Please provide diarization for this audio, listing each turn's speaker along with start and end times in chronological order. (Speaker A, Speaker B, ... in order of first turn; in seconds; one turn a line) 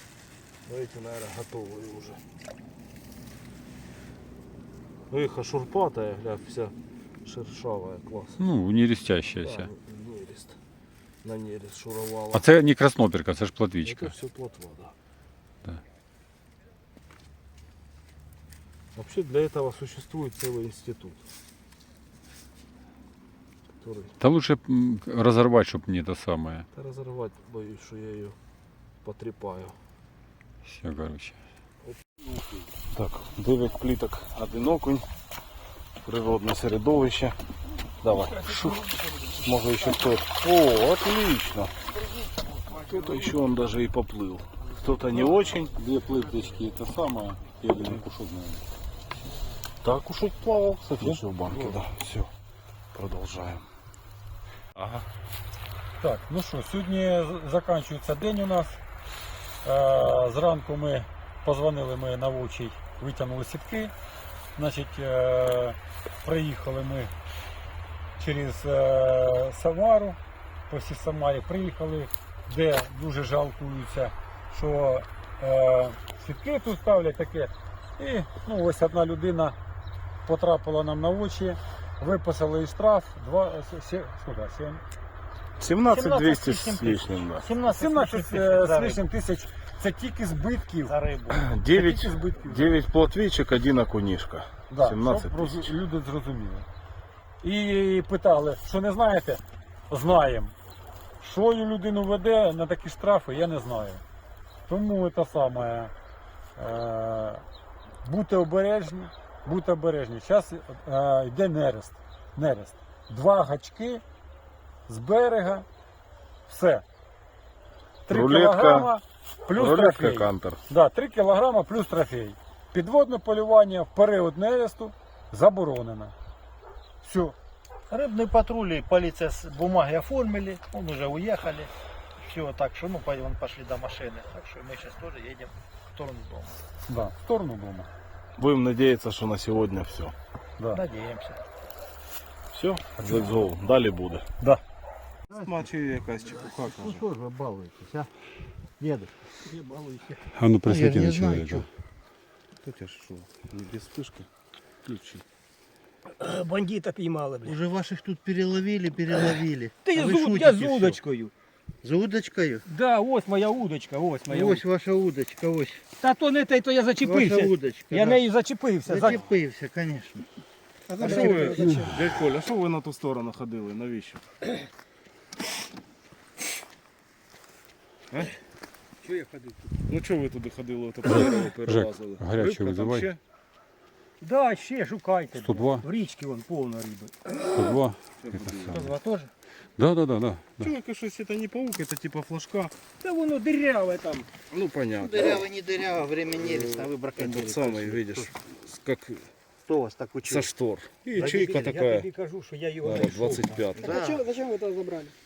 Speaker A: 0.7-2.2
Speaker A: 5.1-6.7
Speaker A: 7.2-8.4
Speaker B: 8.4-9.7
Speaker A: 9.4-10.6
Speaker A: 11.2-12.4
Speaker B: 12.3-14.1
Speaker A: 13.8-14.9
Speaker A: 18.9-21.2
Speaker A: 23.8-24.1
Speaker B: 24.2-26.6
Speaker A: 26.7-28.4
Speaker A: 29.0-29.7
Speaker B: 30.6-31.4
Speaker A: 32.9-35.0
Speaker A: 36.0-37.4
Speaker A: 38.0-41.7
Speaker A: 42.8-45.7
Speaker B: 45.7-48.6
Speaker A: 49.8-52.3
Speaker B: 51.0-51.8
Speaker A: 52.9-53.6
Speaker A: 54.8-55.0
Speaker B: 56.0-58.8
Speaker B: 59.6-63.9
Speaker B: 64.6-67.1
Speaker B: 68.2-70.2
Speaker B: 70.7-79.5
Speaker B: 80.2-84.8
Speaker A: 85.6-87.4
Speaker C: 85.9-89.0
Speaker B: 87.7-90.9
Speaker C: 90.9-91.8
Speaker A: 91.3-95.7
Speaker B: 91.8-92.8
Speaker B: 94.7-96.7
Speaker B: 97.4-100.5
Speaker B: 101.2-104.0
Speaker B: 104.7-105.9
Speaker B: 106.6-107.4
Speaker B: 108.0-114.0
Speaker B: 114.9-115.7
Speaker B: 116.5-116.8
Speaker B: 118.1-126.1
Speaker A: 118.1-118.9
Speaker A: 119.5-120.6
Speaker B: 127.0-127.3
Speaker C: 127.9-136.6
Speaker B: 136.9-137.9
Speaker A: 138.4-140.1
Speaker C: 140.7-141.4
Speaker A: 142.5-144.2
Speaker B: 143.0-143.3
Speaker A: 145.3-147.0
Speaker C: 146.3-148.1
Speaker C: 148.8-150.0
Speaker B: 150.3-151.7
Speaker C: 150.6-151.7
Speaker A: 152.6-154.3
Speaker A: 154.8-155.2
Speaker D: 156.2-157.6
Speaker C: 157.4-161.0
Speaker D: 159.8-161.3
Speaker C: 161.8-162.6
Speaker D: 162.7-164.6
Speaker C: 164.2-165.8
Speaker D: 166.0-169.2
Speaker C: 167.0-168.2
Speaker C: 168.8-170.3
Speaker D: 170.9-171.8
Speaker C: 171.0-171.7
Speaker A: 171.0-174.2
Speaker D: 179.1-179.4
Speaker A: 179.9-183.2
Speaker B: 181.6-183.1
Speaker D: 184.2-187.7
Speaker B: 185.3-185.9
Speaker B: 187.5-188.9
Speaker A: 188.2-188.9
Speaker C: 188.7-189.3
Speaker B: 189.8-190.7
Speaker A: 190.6-192.7
Speaker D: 193.0-194.3
Speaker A: 194.5-195.4
Speaker C: 195.0-198.3
Speaker A: 196.4-199.3
Speaker C: 199.6-200.5
Speaker A: 200.2-202.1
Speaker D: 201.1-205.1
Speaker C: 201.2-201.7
Speaker A: 202.8-204.1
Speaker C: 203.8-204.2